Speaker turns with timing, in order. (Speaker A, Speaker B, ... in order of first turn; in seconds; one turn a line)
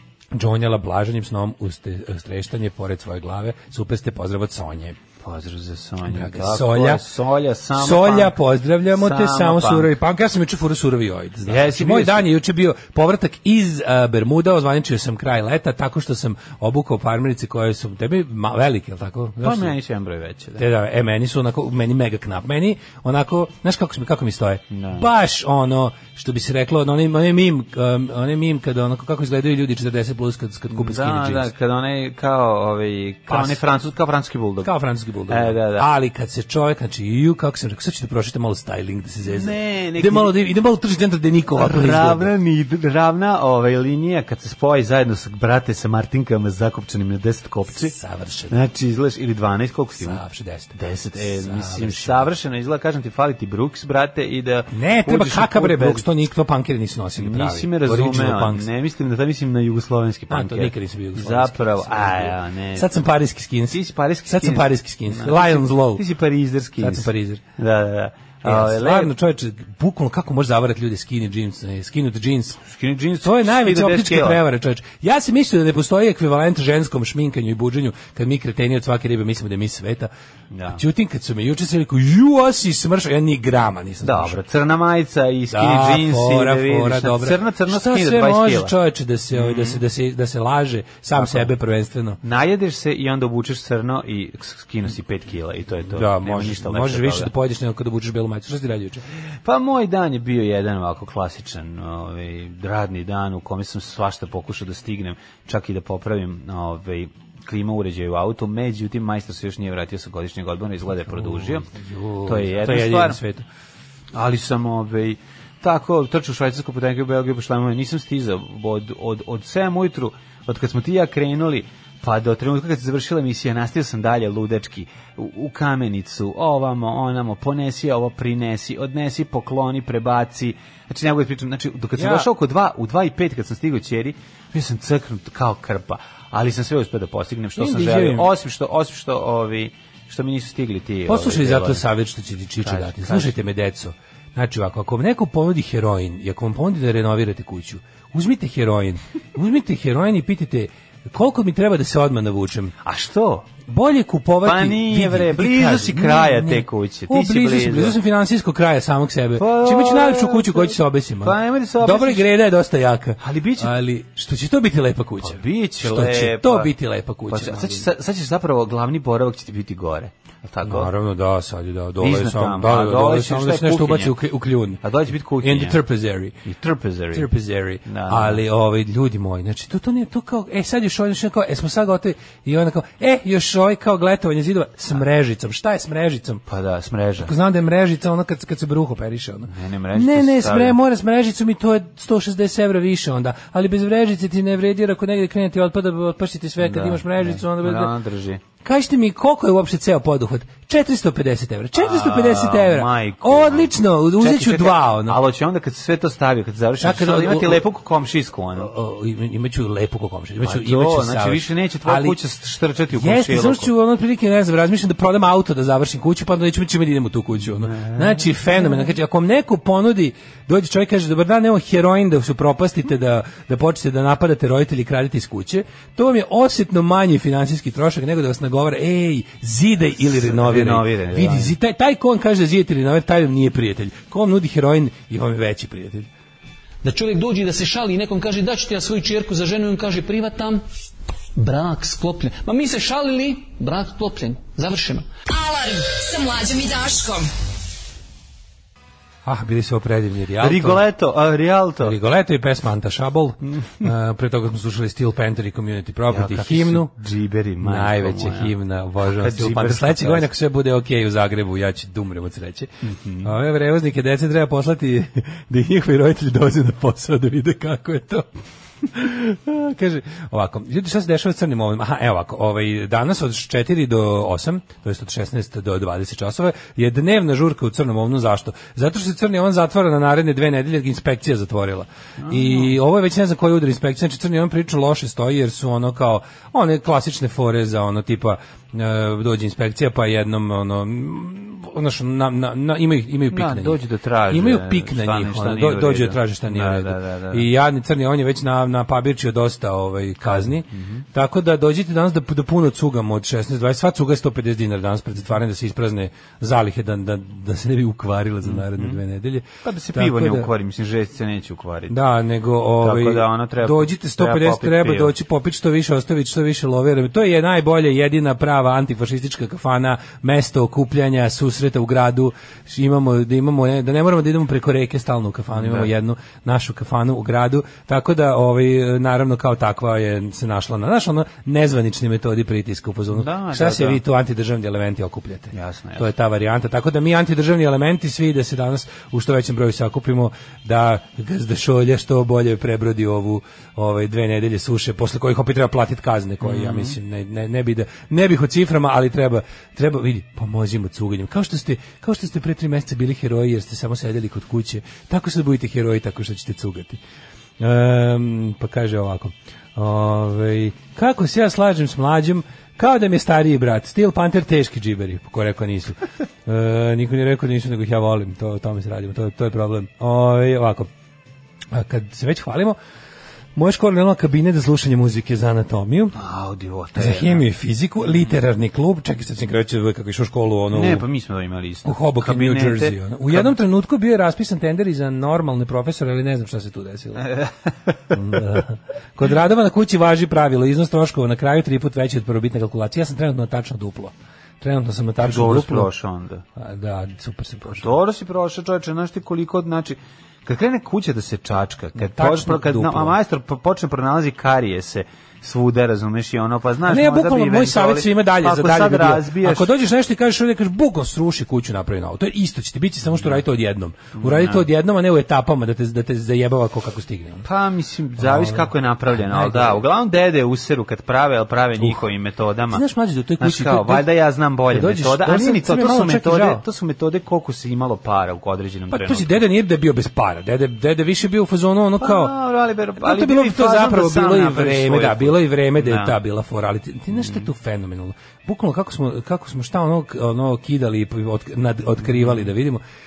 Speaker A: 0.3-5.0
Speaker B: 5.2-8.3
Speaker A: 6.0-7.0
Speaker A: 7.7-19.7
Speaker B: 8.9-9.9
Speaker B: 11.5-12.3
Speaker B: 19.4-20.6
Speaker A: 20.6-31.5
Speaker B: 24.7-25.1
Speaker B: 30.7-34.7
Speaker A: 33.3-33.6
Speaker A: 34.6-42.3
Speaker B: 35.3-35.9
Speaker B: 39.2-40.3
Speaker B: 41.5-47.9
Speaker A: 47.8-48.5
Speaker B: 48.5-50.2
Speaker A: 50.0-50.7
Speaker B: 50.7-56.0
Speaker A: 51.2-52.3
Speaker A: 54.7-58.7
Speaker B: 57.2-62.9
Speaker A: 60.3-66.0
Speaker B: 63.7-69.1
Speaker A: 66.8-67.4
Speaker A: 68.4-72.6
Speaker B: 72.7-74.4
Speaker A: 73.2-80.1
Speaker B: 80.5-80.8
Speaker A: 80.7-84.4
Speaker B: 84.0-88.7
Speaker A: 85.5-92.2
Speaker B: 89.3-89.8
Speaker B: 91.1-91.5
Speaker B: 92.2-97.3
Speaker A: 95.9-99.0
Speaker B: 99.4-111.7
Speaker A: 111.1-113.5
Speaker B: 112.2-113.2
Speaker B: 114.1-141.8
Speaker A: 132.0-132.3
Speaker A: 137.6-138.3
Speaker A: 141.1-152.7
Speaker B: 142.6-143.3
Speaker B: 152.8-153.4
Speaker A: 153.7-167.9
Speaker B: 154.4-158.0
Speaker B: 159.4-162.3
Speaker B: 163.2-163.7
Speaker B: 165.2-166.7
Speaker B: 167.3-170.9
Speaker A: 170.6-174.8
Speaker B: 172.0-174.1
Speaker B: 174.8-175.8
Speaker A: 175.4-176.3
Speaker B: 176.4-177.3
Speaker A: 177.1-186.4
Speaker B: 177.8-178.4
Speaker B: 186.5-187.3
Speaker A: 187.2-197.9
Speaker B: 189.5-190.8
Speaker B: 196.6-198.4
Speaker A: 198.6-205.2
Speaker B: 201.8-208.7
Speaker A: 206.8-207.7
Speaker A: 208.6-212.2
Speaker B: 210.4-213.7
Speaker A: 212.9-236.1
Speaker B: 217.6-218.2
Speaker B: 230.1-231.5
Speaker C: 236.8-240.6
Speaker C: 241.3-245.1
Speaker D: 245.3-247.3
Speaker A: 249.2-250.8
Speaker B: 250.4-251.9
Speaker A: 251.8-256.9
Speaker B: 256.1-260.3
Speaker A: 257.6-262.7
Speaker B: 262.8-263.3
Speaker A: 263.2-268.3
Speaker A: 268.8-310.5
Speaker B: 282.2-282.7
Speaker B: 293.3-297.5
Speaker B: 300.2-301.0
Speaker B: 308.4-309.0
Speaker B: 309.6-312.0
Speaker A: 311.9-357.0
Speaker B: 312.8-315.1
Speaker B: 325.6-325.9
Speaker B: 333.1-334.0
Speaker B: 335.5-336.1
Speaker B: 346.4-346.9
Speaker A: 357.6-370.9
Speaker A: 371.7-372.8
Speaker A: 373.6-376.1
Speaker B: 376.1-377.4
Speaker A: 376.9-381.1
Speaker B: 380.7-383.5
Speaker A: 381.8-387.2
Speaker B: 387.2-388.1
Speaker A: 388.1-395.9
Speaker B: 395.2-396.4
Speaker A: 396.6-397.9
Speaker B: 397.7-409.7
Speaker A: 402.0-403.1
Speaker A: 406.9-417.4
Speaker B: 414.2-414.6
Speaker B: 417.4-422.9
Speaker A: 418.2-419.8
Speaker A: 421.8-422.1
Speaker A: 422.7-424.1
Speaker B: 423.4-429.4
Speaker A: 424.7-426.6
Speaker A: 428.9-432.3
Speaker B: 432.0-436.1
Speaker A: 433.0-442.8
Speaker B: 437.2-437.5
Speaker B: 442.1-442.5